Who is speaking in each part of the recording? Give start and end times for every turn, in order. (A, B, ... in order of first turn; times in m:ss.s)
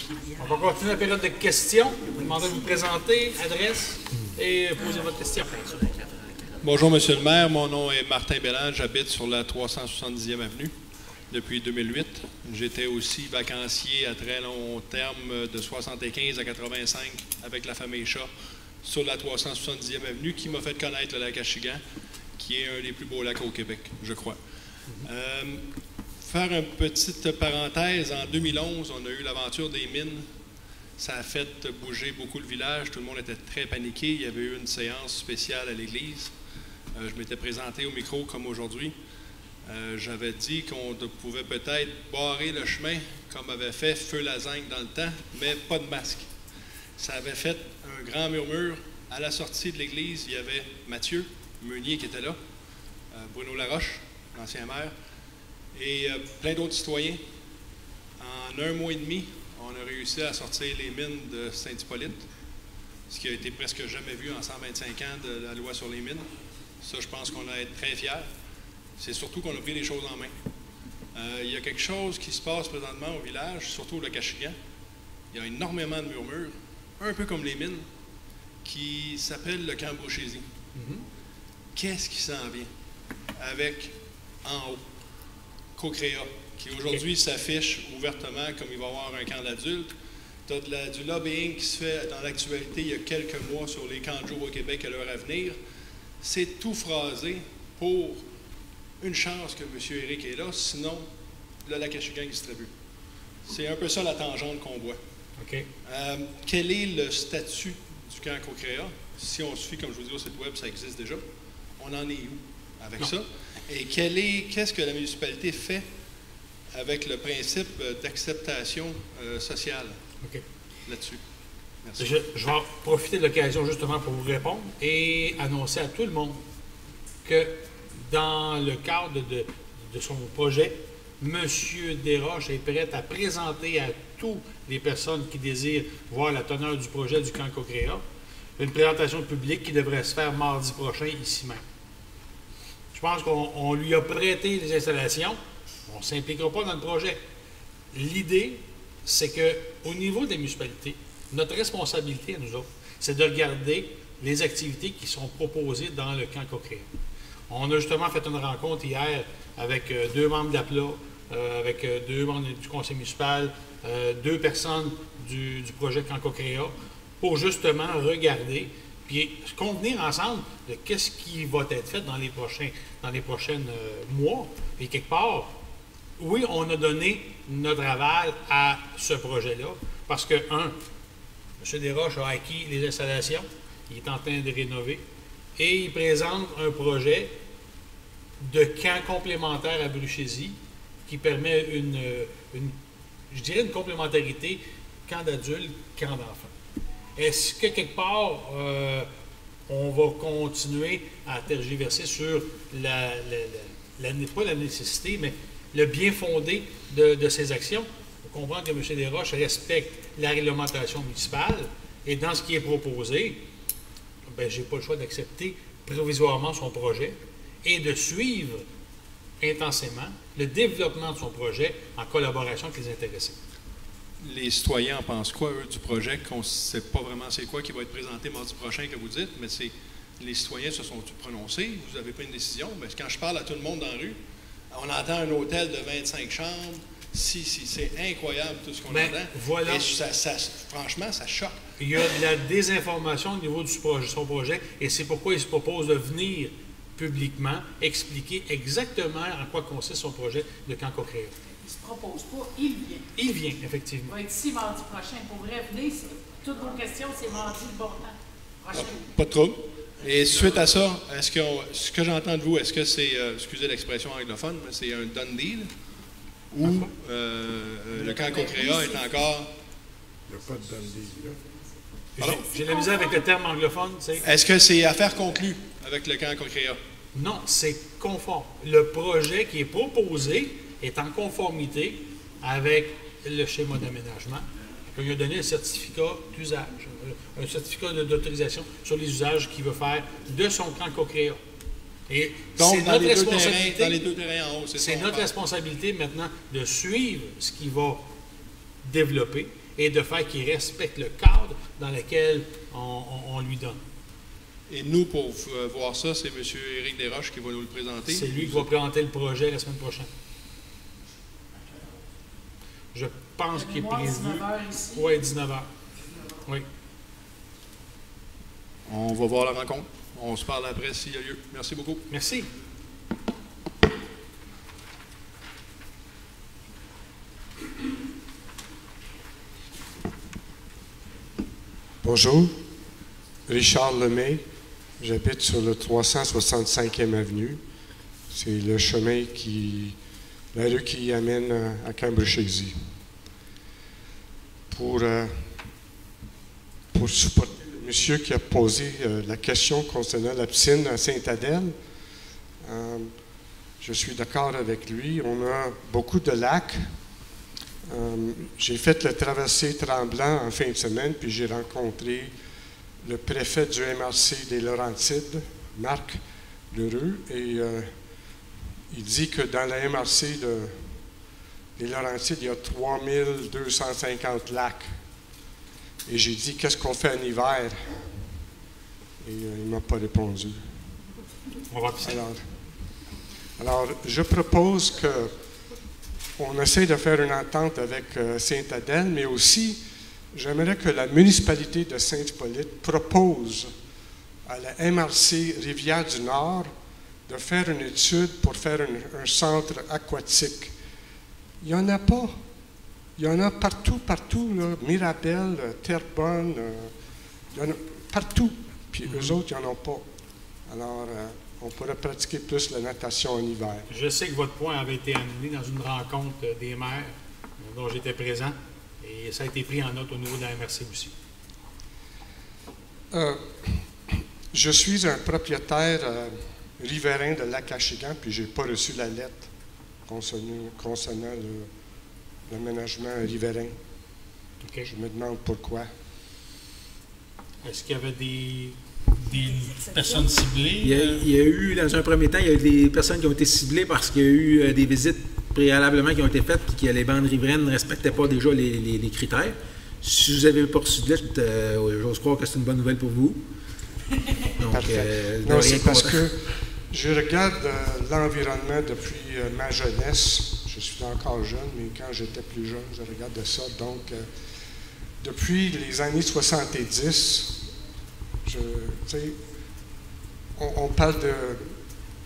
0:00.4-0:05.7 A
0:06.6-0:10.7 B
0:11.3-0:18.3 B
0:18.8-0:21.8 B
0:22.4-0:24.4 B
0:25.0-0:25.6 B
0:26.2-0:30.2 B
0:31.0-0:36.3 B
0:37.0-0:38.9 B
0:39.6-0:46.3 B
0:47.0-0:52.4 B
0:53.1-0:54.9 B
0:55.7-0:57.2 B
0:58.2-1:02.2 B
1:03.1-1:06.2 B
1:06.8-1:08.3 B
1:09.0-1:10.3 B
1:11.1-1:14.5 B
1:15.3-1:17.8 B
1:18.6-1:20.4 B
1:20.7-1:21.0 A
1:21.8-1:22.7 B
1:23.4-1:23.9 B
1:24.4-1:24.8 B
1:25.8-1:29.9 B
1:30.5-1:35.6 B
1:36.2-1:38.2 B
1:39.0-1:41.0 B
1:41.6-1:42.7 B
1:43.4-1:45.0 B
1:45.4-1:45.7 A
1:45.8-1:51.2 B
1:51.8-1:55.8 B
1:56.7-2:00.0 B
2:00.8-2:01.2 B
2:01.8-2:02.1 B
2:02.0-2:06.4 A
2:07.2-2:18.0 A
2:18.6-2:21.6 A
2:22.9-2:27.2 A
2:27.9-2:36.9 A
2:37.5-2:55.5 A
2:56.2-3:00.8 A
3:01.6-3:05.0 A
3:05.6-3:07.3 A
3:08.4-3:12.7 A
3:13.3-3:16.5 A
3:17.2-3:19.1 A
3:19.7-3:33.4 A
3:34.3-3:38.6 A
3:39.4-3:43.4 A
3:44.2-3:54.2 B
3:54.7-4:01.6 B
3:58.9-3:59.9 A
4:01.8-4:11.3 A
4:11.6-4:13.0 C
4:13.1-4:14.2 A
4:14.1-4:19.0 C
4:18.7-4:25.7 B
4:26.5-4:29.5 B
4:26.6-4:26.9 A
4:28.3-4:28.8 C
4:30.3-4:31.4 D
4:32.2-4:34.2 A
4:34.2-4:36.8 B
4:37.1-4:51.4 A
4:52.1-4:54.0 A
4:52.6-4:55.3 B
4:54.8-4:58.0 A
4:58.8-5:03.8 A
5:04.7-5:08.7 B
5:08.1-5:10.1 A
5:12.9-5:15.7 A
5:13.5-5:15.1 C
5:18.9-5:22.0 B
5:22.1-5:22.5 A
5:32.0-5:32.5 D
5:33.5-5:34.4 D
5:35.0-5:37.6 D
5:38.3-5:40.0 D
5:40.5-5:42.8 D
5:44.7-5:45.5 D
5:46.9-5:51.7 D
5:52.6-5:53.2 D
5:53.8-5:57.0 D
5:57.9-6:02.3 D
6:03.0-6:07.9 D
6:08.9-6:11.0 D
6:11.8-6:15.0 D
6:16.0-6:18.3 D
6:19.2-6:20.8 D
6:21.7-6:22.2 A
6:22.0-6:22.4 D
6:23.6-6:25.3 D
6:26.4-6:29.8 D
6:30.3-6:33.7 D
6:34.4-6:36.7 D
6:37.3-6:40.7 D
6:41.6-6:42.4 D
6:43.2-6:46.9 D
6:47.5-6:50.0 D
6:49.1-6:49.3 A
6:50.7-6:53.9 D
6:53.9-7:01.1 A
7:03.1-7:09.5 D
7:10.0-7:11.7 D
7:12.5-7:13.7 D
7:14.6-7:14.9 A
7:14.8-7:15.9 D
7:17.6-7:21.2 A
7:20.8-7:33.4 E
7:34.6-7:36.2 E
7:34.6-7:44.2 D
7:45.2-7:47.6 D
7:48.4-7:49.4 D
7:50.6-7:51.7 D